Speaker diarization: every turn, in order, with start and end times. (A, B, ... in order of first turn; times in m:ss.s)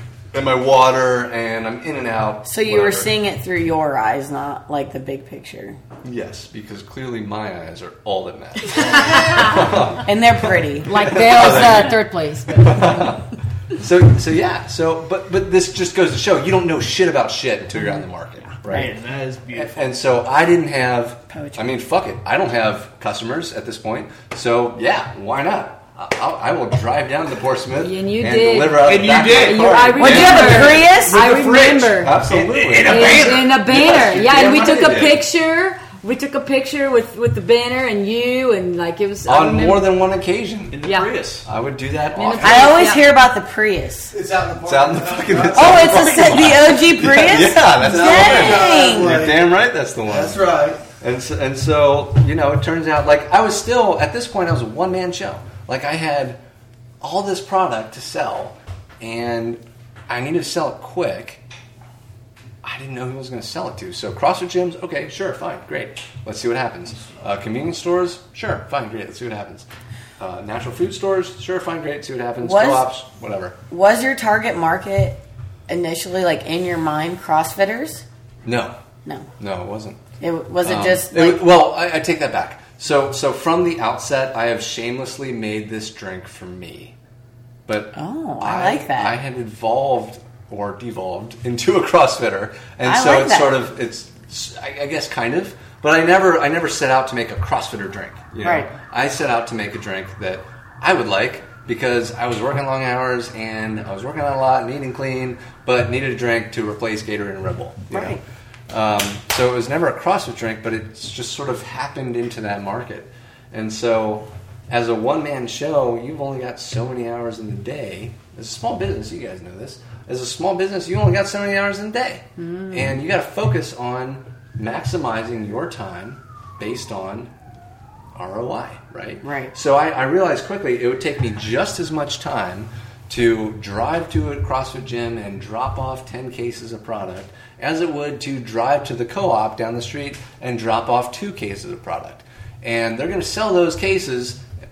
0:00.3-0:03.1 A
0:02.4-0:05.8 B
0:06.0-0:12.0 A
0:10.0-0:12.0 B
0:10.9-0:13.1 C
0:12.6-0:18.9 A
0:18.6-0:19.9 D
0:19.5-0:30.9 A
0:21.3-0:21.6 B
0:27.8-0:39.9 C
0:28.8-0:30.4 D
0:30.0-0:31.2 B
0:31.0-0:33.6 D
0:31.9-0:35.2 A
0:39.2-0:40.8 A
0:40.7-0:41.5 D
0:40.8-0:41.2 C
0:41.4-0:42.8 A
0:42.1-0:43.1 C
0:42.4-0:44.2 B
0:44.1-0:45.9 E
0:44.6-0:50.4 A
0:45.5-0:49.2 B
0:47.9-0:49.4 E
0:50.1-0:50.8 E
0:51.0-0:56.4 A
0:57.0-1:01.4 A
1:02.6-1:09.7 A
1:10.2-1:13.6 A
1:12.4-1:12.9 B
1:13.7-1:18.0 B
1:18.4-1:18.7 A
1:19.4-1:20.0 A
1:20.2-1:21.4 B
1:20.6-1:26.9 A
1:27.6-1:48.2 A
1:27.9-1:29.1 B
1:32.8-1:33.5 B
1:38.4-1:38.7 B
1:47.9-1:48.2 B
1:48.7-2:07.3 A
2:02.4-2:03.0 B
2:08.2-2:24.4 A
2:09.2-2:09.5 B